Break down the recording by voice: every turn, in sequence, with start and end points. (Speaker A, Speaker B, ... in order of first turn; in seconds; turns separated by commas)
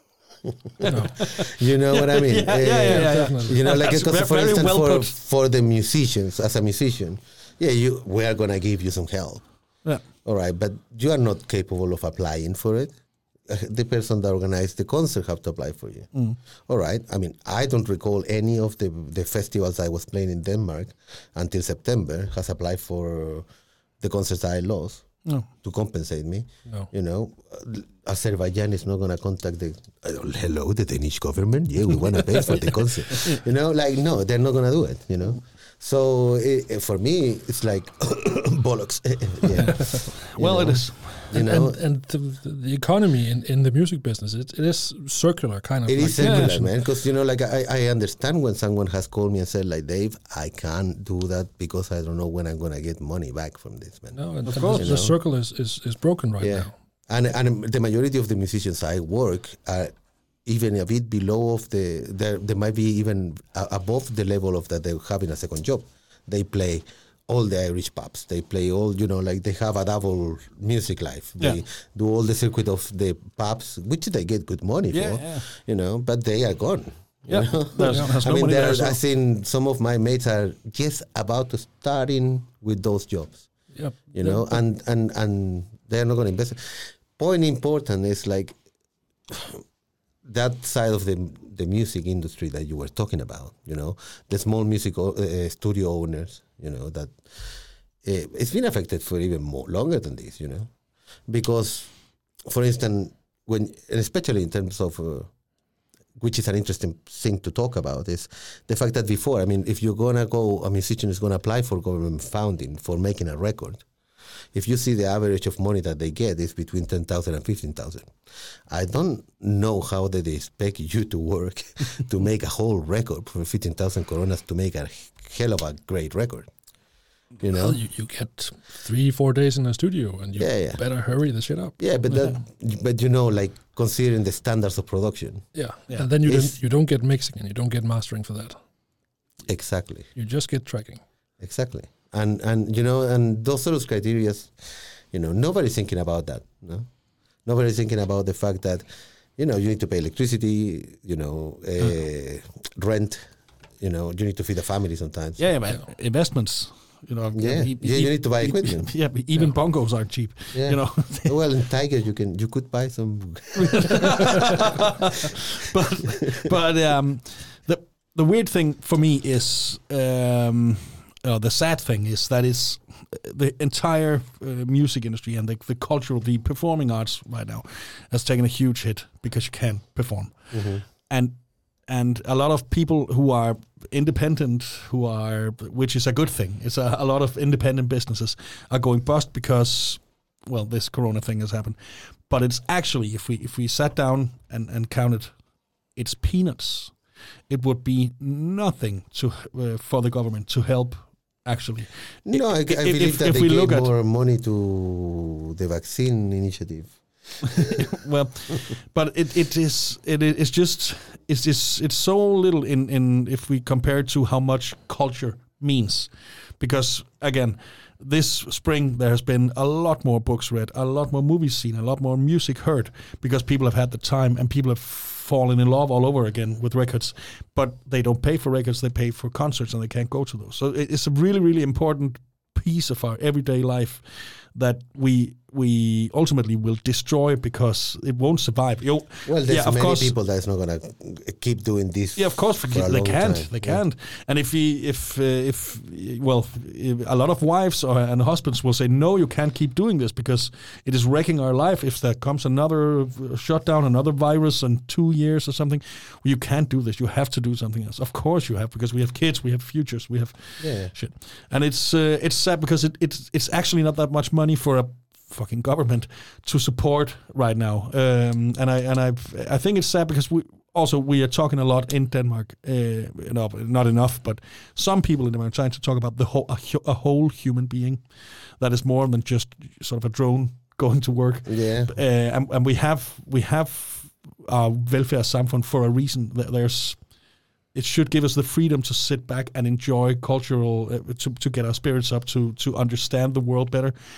Speaker A: 0.4-9.4, Speaker B: 0.8-5.1, Speaker C: 0.9-1.1, Speaker C: 2.9-3.6, Speaker A: 10.2-12.9, Speaker A: 13.5-16.1, Speaker A: 16.7-23.5, Speaker A: 24.0-41.8, Speaker B: 40.3-41.2, Speaker C: 41.3-46.7, Speaker A: 45.9-54.2, Speaker B: 46.2-46.5, Speaker C: 54.1-56.7, Speaker B: 54.5-54.9, Speaker A: 54.7-55.1, Speaker A: 56.4-59.9, Speaker A: 60.4-83.5, Speaker B: 74.9-75.5, Speaker B: 77.3-79.0, Speaker C: 83.7-84.5, Speaker A: 84.1-88.5, Speaker A: 89.3-89.6, Speaker A: 90.2-100.7, Speaker A: 101.3-101.9, Speaker A: 102.5-105.3, Speaker A: 106.2-113.8, Speaker A: 114.5-118.1, Speaker A: 118.7-126.5, Speaker A: 127.4-127.8, Speaker C: 127.5-131.8, Speaker A: 130.4-130.8, Speaker A: 131.8-135.4, Speaker C: 135.5-138.6, Speaker A: 136.2-136.6, Speaker A: 139.5-140.1, Speaker C: 140.2-141.0, Speaker A: 141.4-146.9, Speaker A: 147.4-148.8, Speaker A: 149.4-153.2, Speaker A: 153.8-155.4, Speaker B: 155.4-161.3, Speaker A: 157.3-158.9, Speaker A: 160.5-164.7, Speaker B: 163.6-180.5, Speaker A: 180.5-180.8, Speaker B: 181.1-181.3, Speaker B: 181.9-195.3, Speaker B: 195.9-196.9, Speaker B: 197.5-203.9, Speaker A: 202.2-207.8, Speaker B: 207.4-240.1, Speaker A: 239.2-243.8, Speaker B: 242.2-278.0, Speaker A: 260.6-260.9, Speaker B: 278.6-287.0, Speaker A: 281.4-281.9, Speaker B: 287.7-293.9